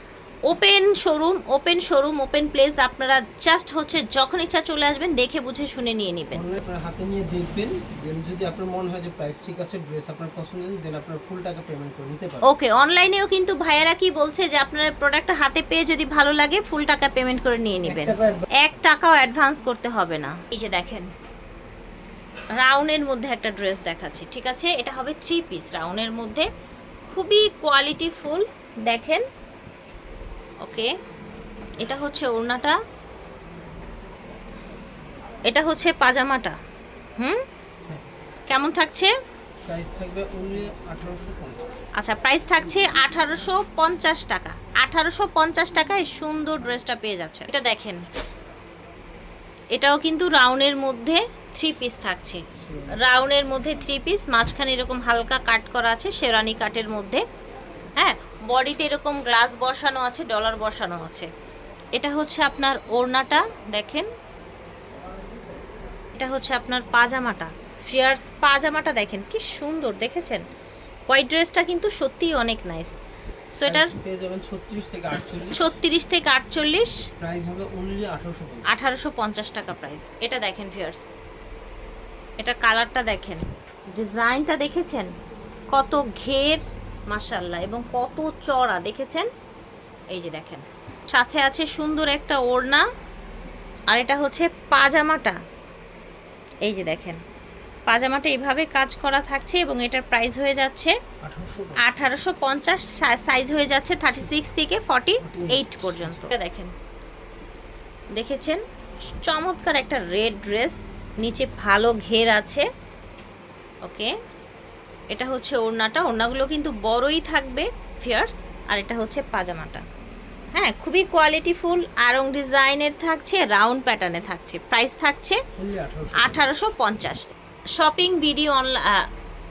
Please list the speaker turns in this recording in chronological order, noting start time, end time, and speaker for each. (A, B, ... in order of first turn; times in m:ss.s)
0:00.5-0:06.4 A
0:06.3-0:12.5 B
0:12.4-0:21.1 A
0:17.8-0:18.5 B
0:22.6-0:26.5 A
0:27.1-0:29.2 A
0:30.6-0:30.9 A
0:31.8-0:32.8 A
0:35.5-0:36.6 A
0:38.5-0:39.1 A
0:39.6-0:41.6 B
0:42.0-0:48.0 A
0:49.7-0:52.4 A
0:52.6-0:53.0 B
0:53.0-0:57.2 A
0:58.0-1:01.3 A
1:01.9-1:04.1 A
1:06.1-1:10.4 A
1:11.1-1:12.9 A
1:13.5-1:13.9 A
1:13.6-1:15.7 B
1:15.5-1:17.1 A
1:17.2-1:18.7 B
1:18.6-1:21.1 A
1:22.4-1:25.1 A
1:25.7-1:29.3 A
1:30.1-1:32.8 A
1:33.9-1:35.4 A
1:36.6-1:37.2 A
1:37.9-1:41.0 A
1:41.2-1:42.1 B
1:41.8-1:46.7 A
1:45.2-1:46.3 B
1:48.1-1:48.6 A
1:49.2-1:52.7 A
1:53.8-1:54.1 A
1:55.1-1:59.8 A
2:00.5-2:05.4 A
2:05.6-2:06.5 B
2:06.2-2:09.1 A